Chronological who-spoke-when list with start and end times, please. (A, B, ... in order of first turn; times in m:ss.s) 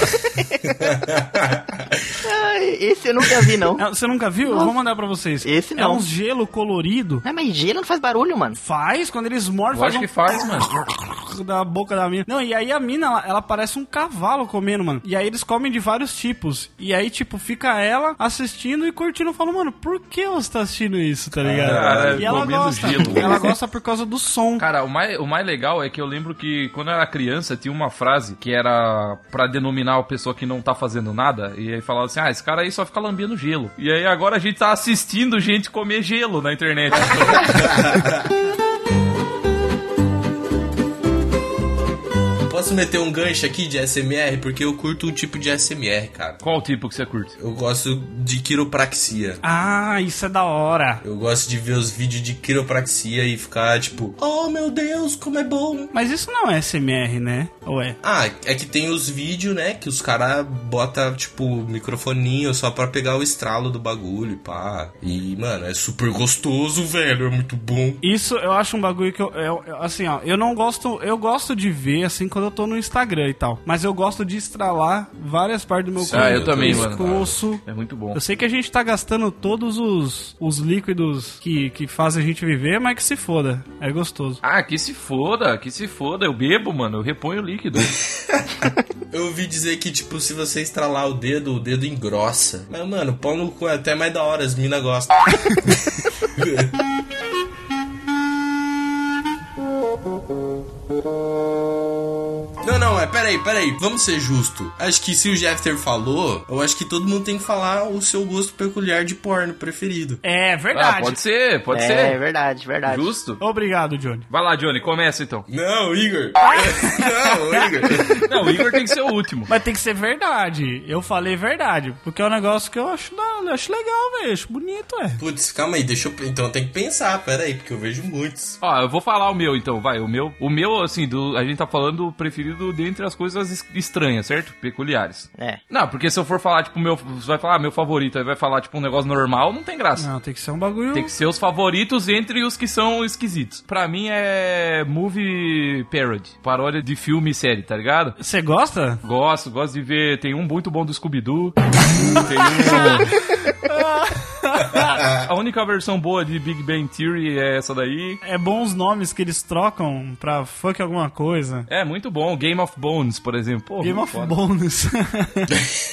0:00.2-0:00.9 A
0:00.8-0:02.1 B
0:02.2-0:03.8 A
0:03.8-0:07.2 C
0:05.4-0:06.0 A
0:07.2-0:08.6 A
0:08.6-0:10.1 C
0:09.7-0:10.7 D
0:10.8-0:24.7 C
0:21.4-0:23.4 B
0:21.6-0:23.5 D
0:24.6-0:37.7 D
0:37.3-0:38.3 B
0:42.4-0:46.4 B
0:46.4-0:47.4 D
0:47.4-0:49.4 B
0:49.4-0:51.0 C
0:51.0-0:55.9 B
0:55.9-0:58.0 C
0:58.0-1:08.0 B
1:08.0-1:24.4 C
1:16.0-1:17.3 B
1:16.1-1:18.2 D
1:24.4-1:27.9 D
1:28.2-1:28.5 B
1:29.1-1:36.7 B
1:42.6-1:50.2 B
1:50.2-1:51.2 C
1:50.7-1:52.2 D
1:51.7-1:53.1 A
1:52.9-1:53.4 D
1:53.4-1:54.3 C
1:54.3-1:55.5 D
1:55.5-1:58.2 B
1:56.4-1:57.3 C
1:58.3-1:59.5 D
1:59.5-2:05.2 C
2:05.2-2:08.6 B
2:08.6-2:20.1 D
2:20.0-2:21.1 C
2:20.9-2:28.2 D
2:28.2-2:29.0 C
2:29.0-2:31.6 D
2:32.1-2:33.1 D
2:32.6-2:35.0 C
2:35.1-2:38.2 D
2:38.2-2:41.7 C
2:41.7-2:44.4 D
2:43.8-2:45.5 C